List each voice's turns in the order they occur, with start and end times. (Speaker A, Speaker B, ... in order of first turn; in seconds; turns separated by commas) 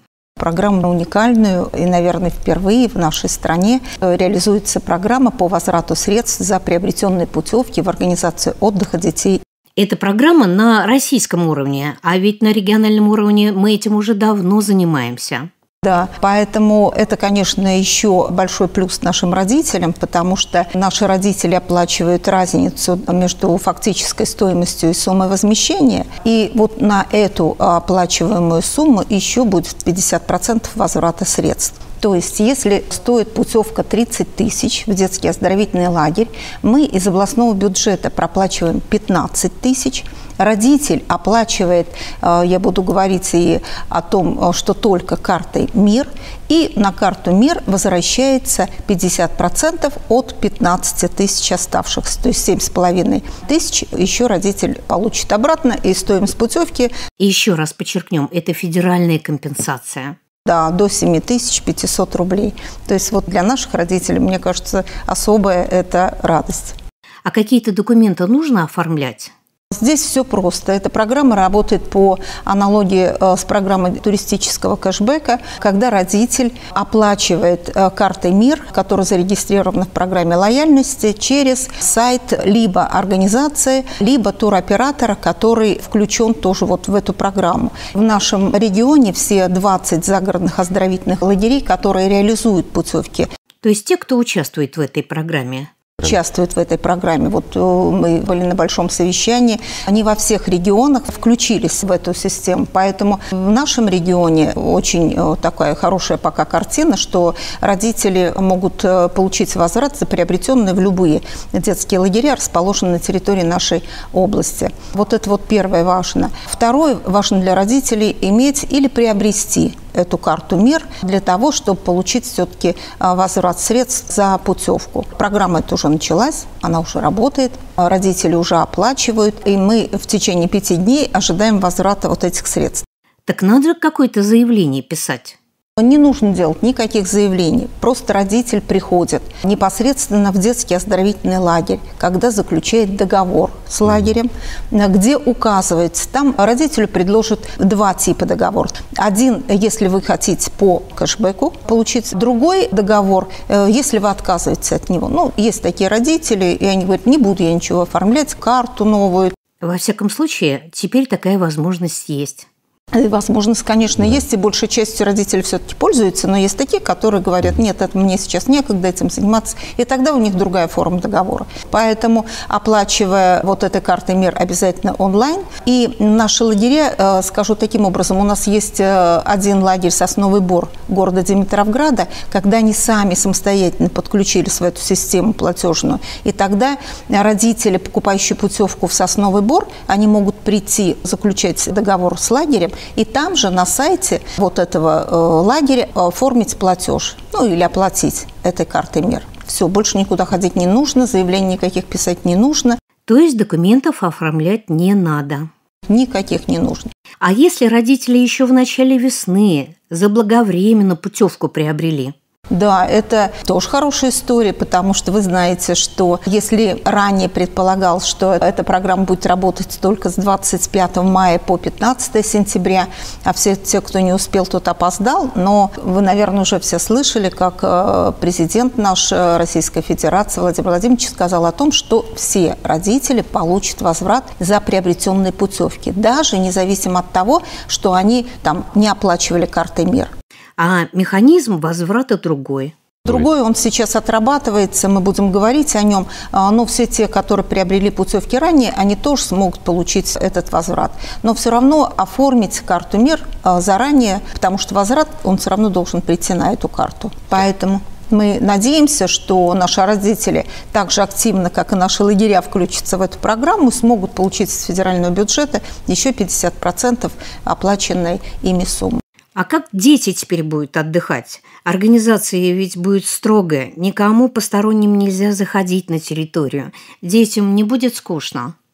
Speaker A: 0.4-9.4, Speaker B: 9.8-15.5, Speaker A: 15.8-56.9, Speaker B: 57.2-60.1, Speaker A: 60.5-66.8, Speaker B: 67.2-69.3, Speaker A: 69.7-93.3, Speaker B: 93.6-95.7, Speaker A: 96.0-132.8, Speaker B: 133.2-135.4, Speaker A: 135.8-159.3, Speaker B: 159.6-162.5, Speaker A: 162.9-202.8, Speaker B: 203.1-205.5, Speaker A: 205.9-206.9, Speaker B: 207.2-212.1, Speaker A: 212.5-240.1, Speaker B: 240.6-242.7, Speaker A: 243.0-269.0, Speaker B: 269.4-278.5